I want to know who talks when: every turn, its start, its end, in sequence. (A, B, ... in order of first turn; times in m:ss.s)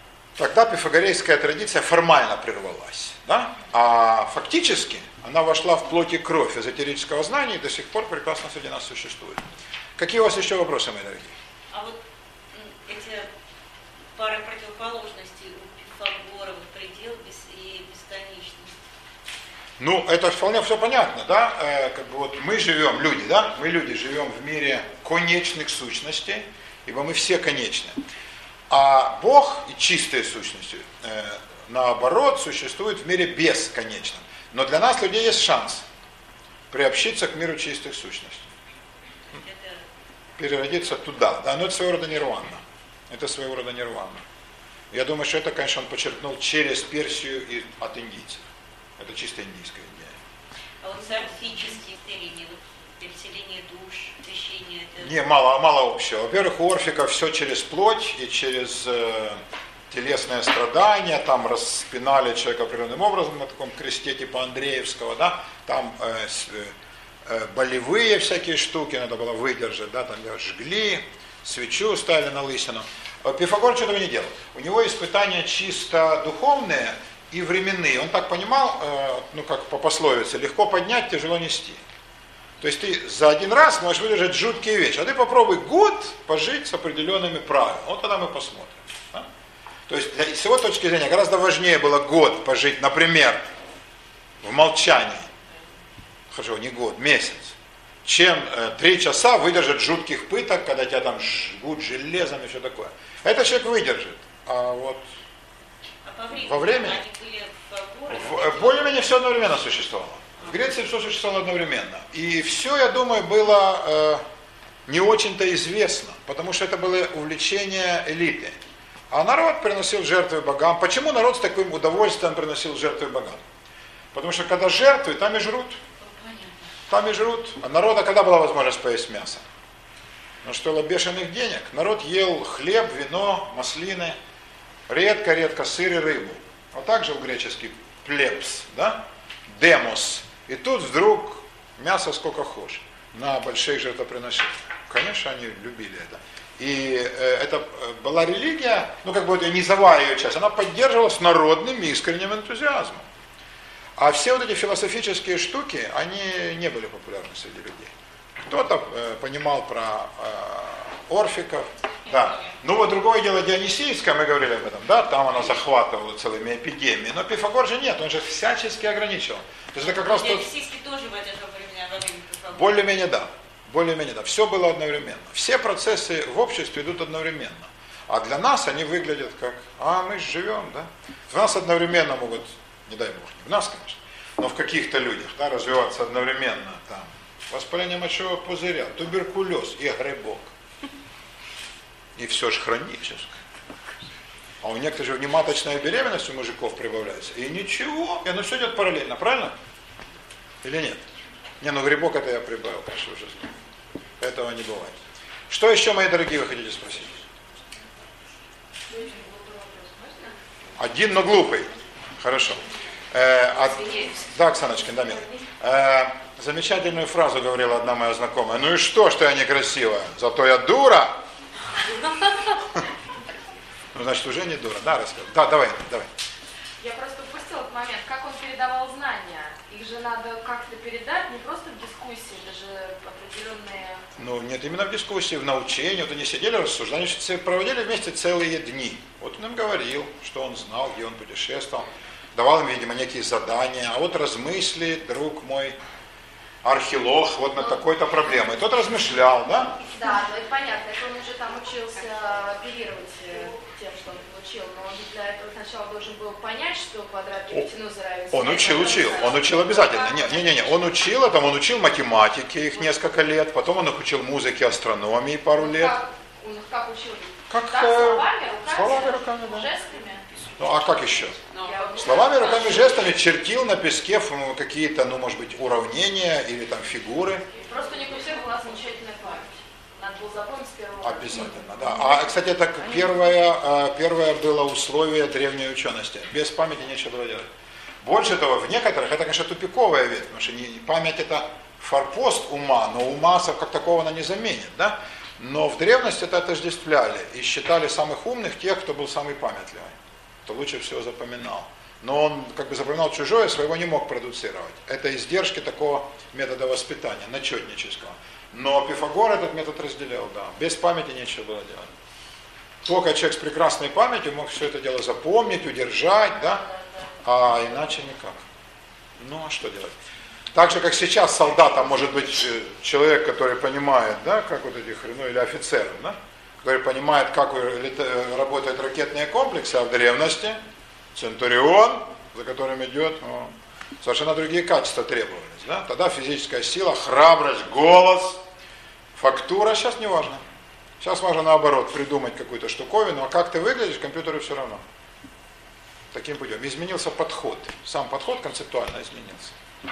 0:00.4-0:09.5 A
0:10.0-0:11.4 A
0:11.7-0:12.0 B
0:12.5-0:13.3 B
0:14.2-0:18.7 B
0:19.8-0:28.0 A
0:28.7-0:35.9 A
0:36.7-0:38.5 A
0:39.3-0:39.8 B
0:40.4-0:44.2 A
0:44.9-0:48.5 A
0:49.0-0:50.1 A
0:50.8-0:55.1 B
0:55.0-0:59.4 A
0:59.9-1:06.7 A
1:07.3-1:21.8 A
1:22.6-1:29.3 A
1:29.9-1:33.5 A
1:34.4-1:35.3 A
1:36.3-1:45.1 A
1:46.0-1:49.0 B
1:46.4-1:47.0 A
1:48.1-1:54.2 A
1:54.9-1:58.6 A
1:59.1-2:03.4 A
2:04.1-2:05.8 A
2:06.0-2:06.6 B
2:06.9-2:09.4 A
2:10.4-2:14.2 A
2:14.9-2:33.1 A
2:34.0-2:37.9 A
2:38.5-2:50.5 A
2:49.9-2:52.8 B
2:52.5-3:10.5 A
3:12.2-3:13.4 A
3:14.6-3:19.6 A
3:20.6-3:21.0 A
3:21.6-3:23.5 A
3:24.2-3:25.0 A
3:25.5-3:27.2 A
3:28.9-3:30.3 C
3:30.8-3:41.2 A
3:33.9-3:34.2 B
3:43.9-3:46.1 A
3:46.8-3:54.0 C
3:54.2-4:05.8 A
4:06.6-4:09.8 A
4:09.8-4:20.6 C
4:18.3-4:26.0 A
4:25.5-4:33.0 C
4:27.5-4:29.7 A
4:30.6-4:31.4 A
4:32.0-4:37.5 A
4:37.6-4:42.3 C
4:41.0-4:47.5 A
4:48.0-5:11.9 A
5:12.8-5:16.7 A
5:17.2-5:18.4 A
5:19.2-5:19.9 A
5:20.5-5:30.6 A
5:31.2-5:38.4 A
5:39.2-5:40.4 A
5:41.0-5:44.8 A
5:46.1-5:49.6 A